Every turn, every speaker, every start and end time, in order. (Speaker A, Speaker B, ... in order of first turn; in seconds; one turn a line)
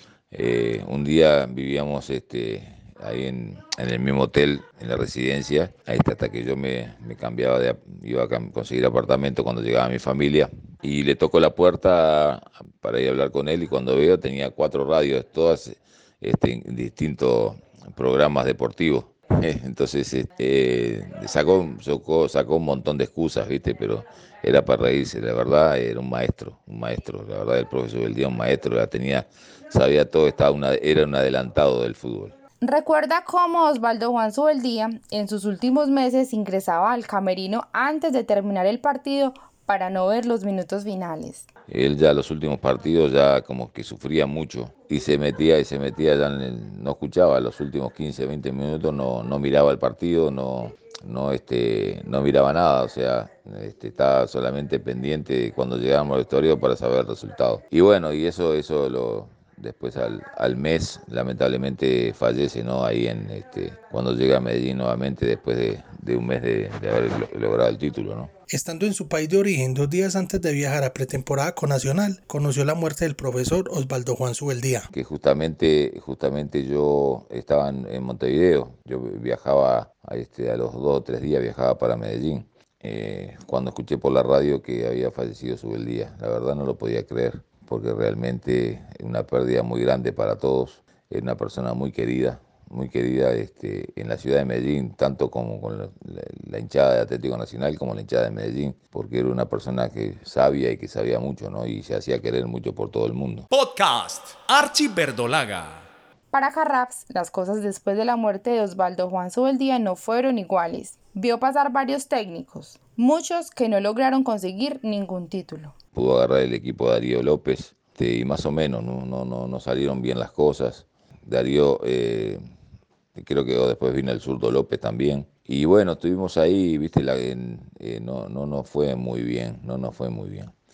Speaker A: 0.3-32.4
Speaker B: 32.6-41.5
Speaker A: 41.7-68.3
Speaker C: 68.5-74.9
Speaker A: 74.9-103.5
Speaker D: 103.5-105.8
Speaker B: 106.3-115.7
Speaker A: 116.0-122.4
Speaker A: 123.2-130.5